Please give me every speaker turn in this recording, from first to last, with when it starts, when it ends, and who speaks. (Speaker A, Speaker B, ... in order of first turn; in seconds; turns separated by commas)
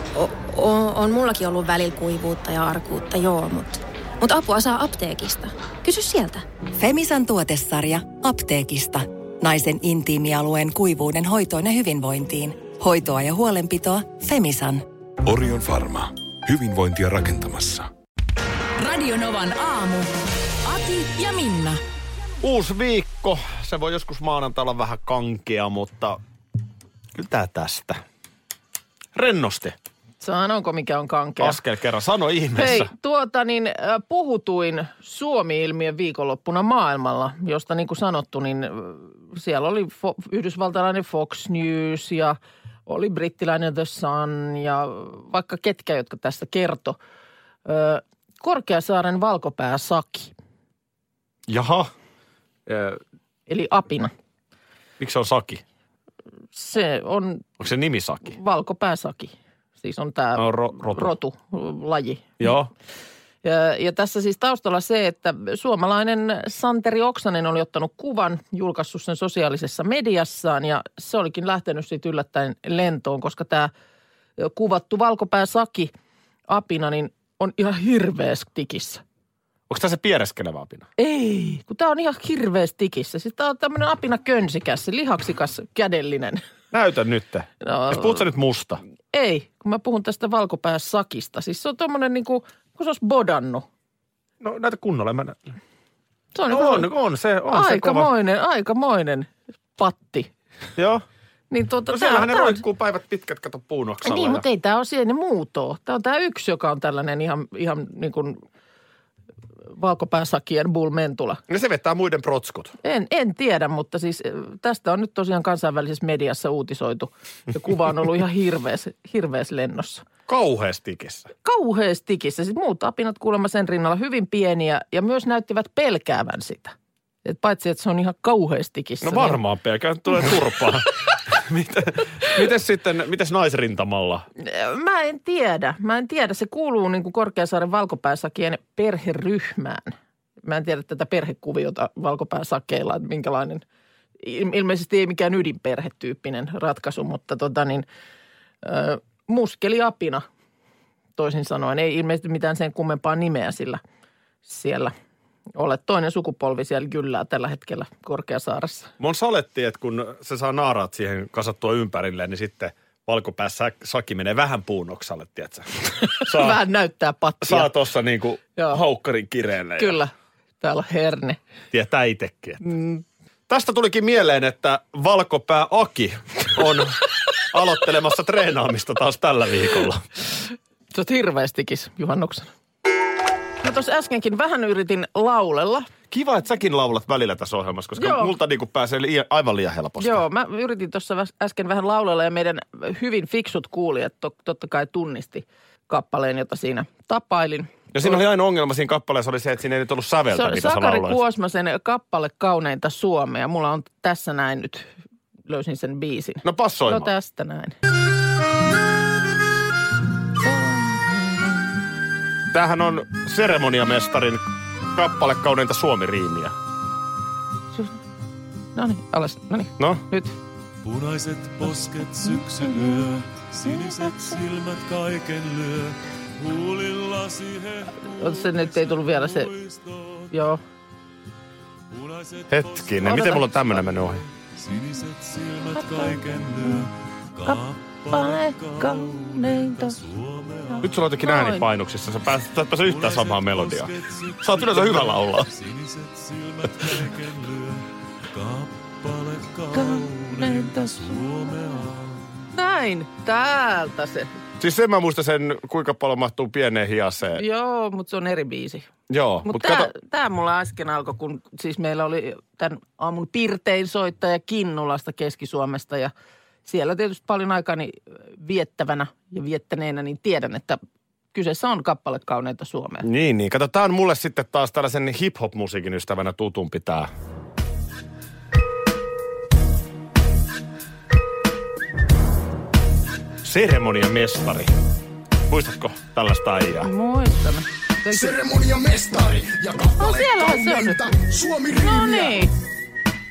Speaker A: 0.1-6.4, Speaker B: 6.7-14.8, Speaker C: 15.2-17.9, Speaker D: 18.8-20.1, Speaker D: 20.6-21.8, Speaker E: 22.4-26.2, Speaker E: 27.1-28.0, Speaker E: 29.1-29.8, Speaker F: 30.2-31.6, Speaker E: 31.4-32.9, Speaker F: 32.5-47.0, Speaker F: 47.6-50.3, Speaker E: 51.5-51.9, Speaker E: 52.7-53.0, Speaker F: 53.5-54.1, Speaker E: 55.0-55.6, Speaker F: 56.5-57.5, Speaker E: 57.6-58.3, Speaker F: 58.2-62.5, Speaker E: 60.4-61.1, Speaker E: 62.4-62.7, Speaker F: 63.4-73.7, Speaker F: 74.4-75.9, Speaker F: 76.5-79.0, Speaker E: 79.7-80.9, Speaker F: 81.0-86.4, Speaker E: 86.7-88.8, Speaker F: 87.6-88.2, Speaker F: 89.1-93.6, Speaker E: 94.4-95.5, Speaker F: 96.3-96.9, Speaker E: 96.5-98.1, Speaker F: 97.5-100.3, Speaker E: 100.8-101.0, Speaker F: 101.5-102.6, Speaker E: 101.9-104.4, Speaker F: 104.0-108.4, Speaker F: 109.7-111.4, Speaker E: 111.5-112.8, Speaker F: 112.8-120.0, Speaker E: 120.3-121.3, Speaker F: 121.4-129.4, Speaker E: 129.0-134.2, Speaker F: 134.4-143.6, Speaker F: 144.2-147.8, Speaker F: 148.6-150.2, Speaker F: 151.2-153.8, Speaker F: 154.4-154.9, Speaker F: 155.5-158.9, Speaker E: 159.0-166.6, Speaker F: 166.1-167.7, Speaker E: 167.4-170.0, Speaker F: 168.6-168.8, Speaker F: 169.8-171.4, Speaker E: 171.7-172.6, Speaker F: 172.6-173.0, Speaker E: 173.5-180.0, Speaker F: 180.9-182.5, Speaker F: 183.6-185.9, Speaker E: 186.1-190.2, Speaker F: 188.0-188.3, Speaker F: 190.0-197.9, Speaker E: 197.9-201.2, Speaker F: 200.3-204.9, Speaker F: 205.5-207.7, Speaker E: 206.4-207.1, Speaker F: 210.4-211.6, Speaker E: 212.5-214.4, Speaker E: 214.9-216.5, Speaker F: 217.7-218.0, Speaker F: 218.7-220.3, Speaker E: 219.8-220.0, Speaker G: 220.8-230.3, Speaker F: 222.2-223.0, Speaker F: 223.7-224.3, Speaker F: 228.0-229.5, Speaker F: 230.3-230.6, Speaker G: 231.9-240.9, Speaker E: 232.5-234.2, Speaker F: 233.0-233.4, Speaker F: 237.4-240.0, Speaker F: 240.7-241.7, Speaker E: 240.8-245.5, Speaker G: 242.8-252.4, Speaker F: 249.7-251.2, Speaker F: 252.5-254.3, Speaker E: 254.6-257.4, Speaker F: 257.4-258.9, Speaker E: 259.1-259.9, Speaker F: 259.4-266.1, Speaker F: 266.6-270.8, Speaker F: 271.3-273.1, Speaker E: 273.0-277.1, Speaker E: 283.4-284.8, Speaker E: 285.5-286.9, Speaker F: 286.8-288.4, Speaker H: 288.1-292.5, Speaker F: 290.0-291.1, Speaker F: 291.8-292.5